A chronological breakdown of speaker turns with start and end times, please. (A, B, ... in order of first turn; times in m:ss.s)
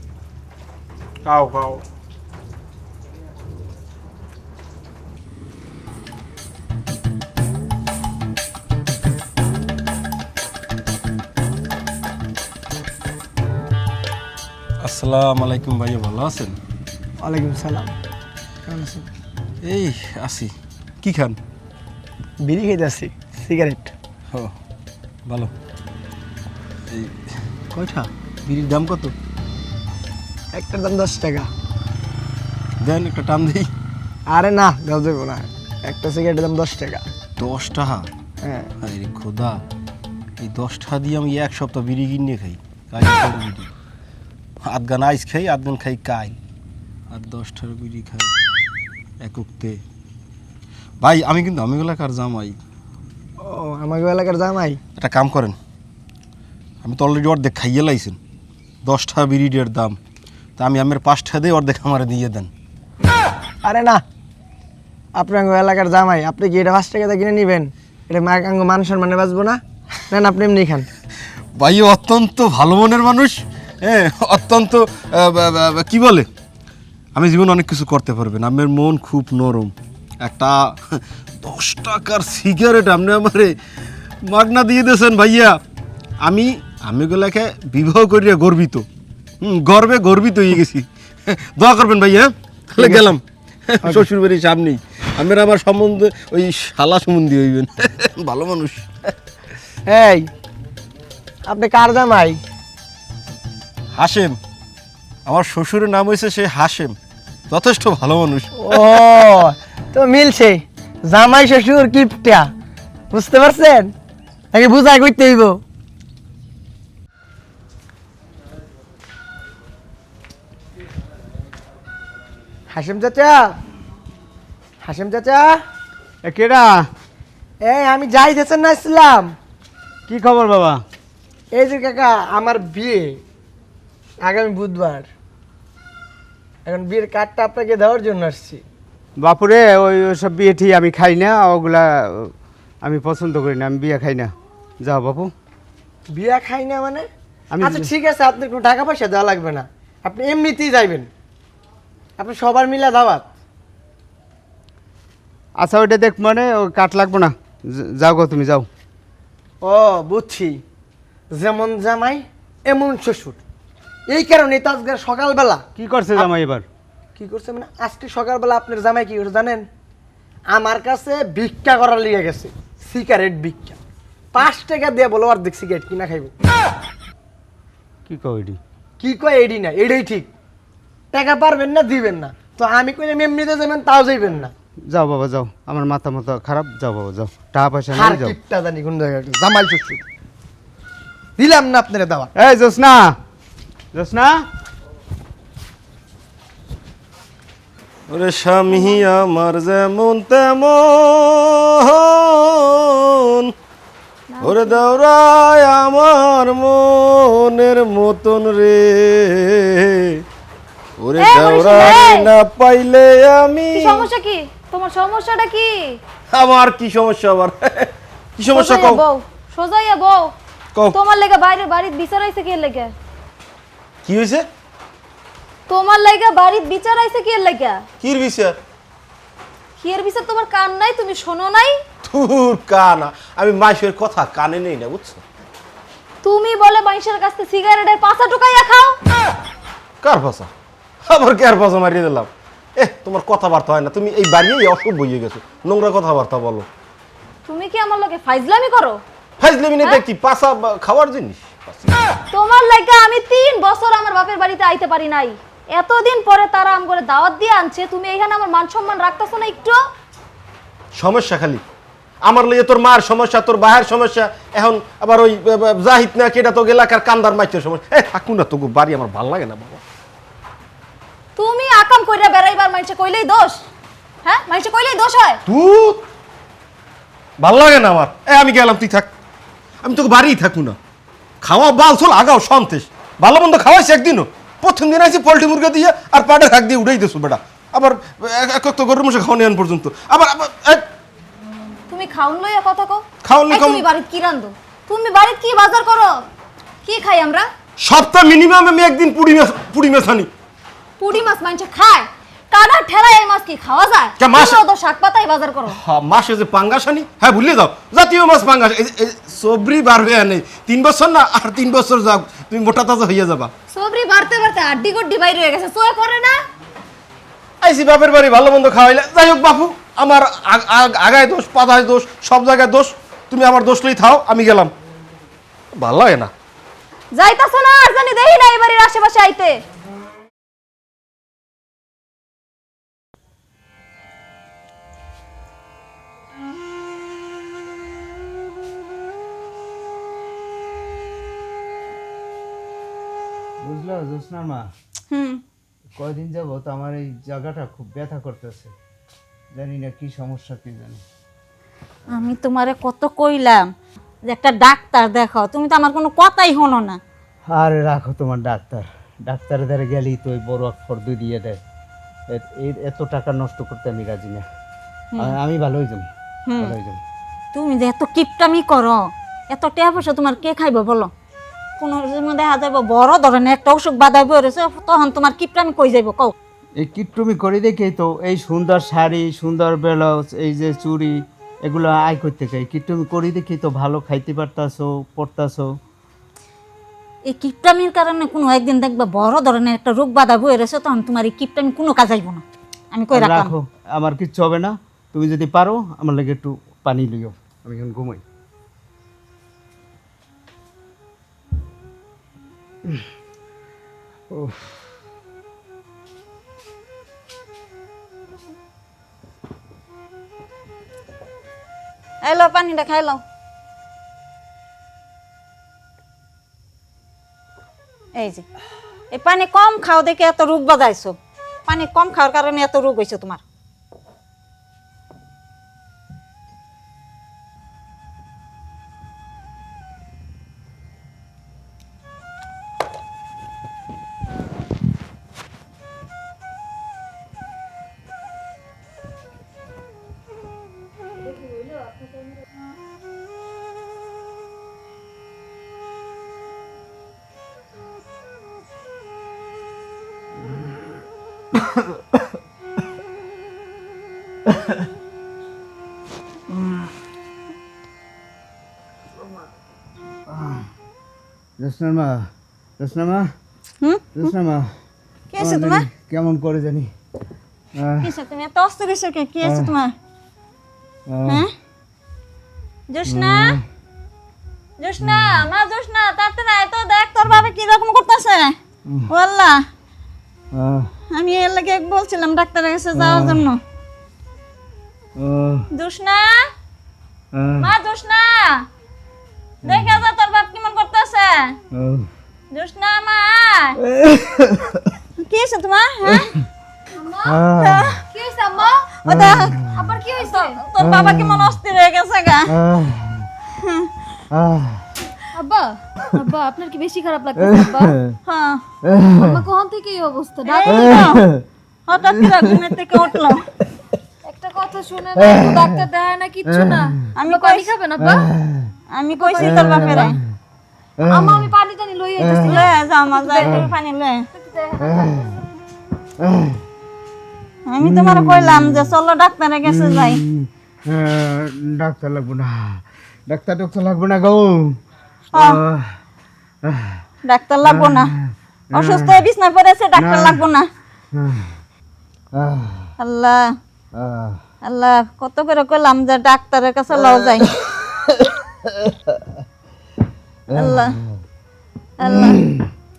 0:01.2-0:01.8 A
0:14.8-0:16.6 A
0:17.2-0:18.0 B
0:18.7-0:19.1 B
0:19.6-0:21.4 A
0:22.4-0:23.9 B
0:25.3-0:25.5 A
0:26.9-0:29.1 A
0:30.5-0:31.5 B
0:32.8-0:33.7 A
0:34.3-0:37.0 B
0:37.4-0:38.1 A
0:38.4-0:38.7 B
0:38.8-0:39.6 A
0:40.4-0:43.7 A
0:44.6-0:46.4 A
0:47.1-0:48.3 A
0:49.2-0:49.8 A
0:51.0-0:52.6 A
0:53.4-0:54.8 B
0:55.0-0:55.6 A
0:56.8-0:58.2 A
0:58.8-1:00.0 A
1:00.6-1:02.5 A
1:03.6-1:04.0 B
1:05.1-1:09.6 B
1:10.1-1:10.9 B
1:11.6-1:16.3 A
1:17.1-1:23.6 A
1:24.2-1:25.6 A
1:26.2-1:28.9 A
1:29.4-1:39.1 A
1:32.8-1:33.1 B
1:33.8-1:34.1 B
1:39.9-1:40.3 B
1:41.5-1:42.4 B
1:44.0-1:44.4 A
1:45.2-1:47.0 A
1:47.5-1:48.9 A
1:48.6-1:52.5 B
1:53.1-1:53.9 B
1:54.5-1:55.6 B
2:02.7-2:03.5 B
2:04.8-2:05.6 B
2:06.2-2:06.9 C
2:07.6-2:09.3 B
2:10.1-2:10.8 C
2:11.5-2:13.2 B
2:14.2-2:15.1 B
2:16.6-2:18.6 B
2:19.2-2:25.3 C
2:26.1-2:27.1 B
2:27.5-2:27.9 C
2:27.6-2:31.1 B
2:32.2-2:33.3 B
2:35.6-2:38.7 C
2:39.6-2:40.6 B
2:41.3-2:43.4 B
2:44.1-2:45.6 B
2:45.8-2:46.7 C
2:47.2-2:49.6 B
2:50.5-2:53.8 B
2:54.3-2:56.3 B
2:58.1-2:58.6 C
2:59.0-3:00.3 B
3:01.1-3:04.5 B
3:04.9-3:08.4 C
3:07.9-3:10.0 B
3:11.4-3:12.3 B
3:12.4-3:13.2 C
3:13.9-3:14.4 C
3:18.1-3:23.5 A
3:18.8-3:19.0 D
3:24.3-3:24.8 D
3:24.4-3:30.2 A
3:31.0-3:34.1 A
3:31.2-3:32.3 D
3:33.7-3:36.0 D
3:36.3-3:39.0 A
3:38.5-3:40.3 D
3:40.9-3:42.9 D
3:44.0-3:44.5 A
3:45.7-3:47.8 D
3:48.0-3:48.6 A
3:49.8-3:51.8 D
3:52.0-3:55.2 A
3:56.2-3:59.0 D
4:00.0-4:00.5 A
4:01.0-4:06.7 A
4:07.5-4:09.0 D
4:09.4-4:12.0 A
4:12.3-4:19.8 D
4:21.0-4:21.6 A
4:22.2-4:29.8 A
4:31.4-4:33.6 D
4:34.2-4:35.4 D
4:35.4-4:36.0 A
4:37.4-4:39.1 A
4:39.8-4:40.8 A
4:41.4-4:50.9 A
4:51.9-4:56.2 D
4:53.2-4:53.8 A
4:56.8-4:57.5 D
4:57.8-5:00.3 A
5:01.0-5:05.8 D
5:04.2-5:04.6 A
5:05.8-5:13.5 A
5:13.7-5:16.4 D
5:17.6-5:24.7 A
5:25.8-5:26.3 A
5:27.1-5:29.6 D
5:43.6-5:44.7 C
5:45.1-5:45.4 E
5:46.0-5:48.7 C
5:49.6-5:51.0 C
5:52.1-5:53.6 E
5:54.3-5:57.0 E
5:57.5-6:01.6 C
6:02.3-6:04.4 C
6:05.2-6:07.0 C
6:06.5-6:06.8 E
6:07.5-6:11.1 E
6:11.8-6:16.3 E
6:16.8-6:25.8 C
6:27.3-6:33.5 E
6:33.1-6:38.2 C
6:44.3-6:44.9 C
6:52.2-6:53.2 E
6:58.2-6:58.4 E
6:59.1-7:03.4 E
7:21.2-7:22.4 D
7:31.5-7:32.2 C
7:34.4-7:34.8 C
7:40.3-7:40.7 C
7:41.6-7:43.3 C
7:43.8-7:44.3 E
7:44.1-7:44.7 C
7:45.3-7:45.9 E
7:45.4-7:46.9 C
7:47.7-7:48.1 C
7:48.0-7:49.9 E
7:49.4-7:49.8 C
7:51.1-7:51.5 C
7:51.3-7:51.5 E
7:52.9-7:53.6 E
7:53.1-7:53.6 C
7:54.8-7:58.6 E
7:55.0-7:55.5 C
7:58.9-7:59.1 C
7:59.1-7:59.6 E
8:00.5-8:00.9 C
8:01.1-8:03.6 E
8:03.0-8:03.5 C
8:05.2-8:05.7 C
8:05.7-8:06.5 E
8:07.3-8:07.8 C
8:07.6-8:08.6 E
8:09.6-8:10.0 C
8:09.6-8:11.6 E
8:11.7-8:12.1 C
8:12.5-8:13.8 E
8:13.8-8:15.0 C
8:15.2-8:16.4 E
8:16.1-8:16.3 C
8:17.0-8:17.4 D
8:17.2-8:18.0 C
8:17.6-8:18.0 E
8:18.0-8:18.9 D
8:19.0-8:22.6 E
8:19.0-8:19.9 C
8:19.6-8:20.6 D
8:20.8-8:21.6 C
8:22.5-8:23.3 C
8:23.6-8:23.9 E
8:24.3-8:24.9 C
8:25.3-8:28.0 D
8:27.4-8:28.2 C
8:28.3-8:28.6 E
8:28.8-8:29.4 C
8:29.2-8:31.0 D
8:30.4-8:31.3 E
8:30.6-8:31.4 C
8:31.9-8:33.5 E
8:32.1-8:33.0 C
8:34.2-8:38.3 D
8:35.2-8:35.8 C
8:36.5-8:37.1 C
8:37.1-8:37.7 E
8:38.0-8:38.7 C
8:38.9-8:40.2 E
8:39.1-8:40.2 D
8:39.4-8:40.2 C
8:41.0-8:41.5 C
8:41.1-8:43.6 D
8:42.2-8:42.7 C
8:42.3-8:44.2 E
8:43.4-8:43.7 C
8:44.3-8:45.3 D
8:44.8-8:45.4 C
8:46.2-8:46.6 C
8:47.7-8:50.2 E
8:47.8-8:49.0 C
8:49.6-8:54.8 C
8:55.3-8:55.6 E
8:55.3-8:56.0 C
8:56.6-8:57.0 C
8:57.2-8:58.1 E
8:57.6-8:59.3 C
8:58.7-9:00.7 E
8:59.9-9:00.4 C
9:01.1-9:01.6 C
9:02.3-9:02.9 C
9:03.0-9:03.6 E
9:03.9-9:04.4 C
9:04.6-9:07.6 E
9:06.9-9:09.4 C
9:10.5-9:11.2 C
9:10.5-9:11.0 E
9:12.0-9:12.4 E
9:12.0-9:12.7 C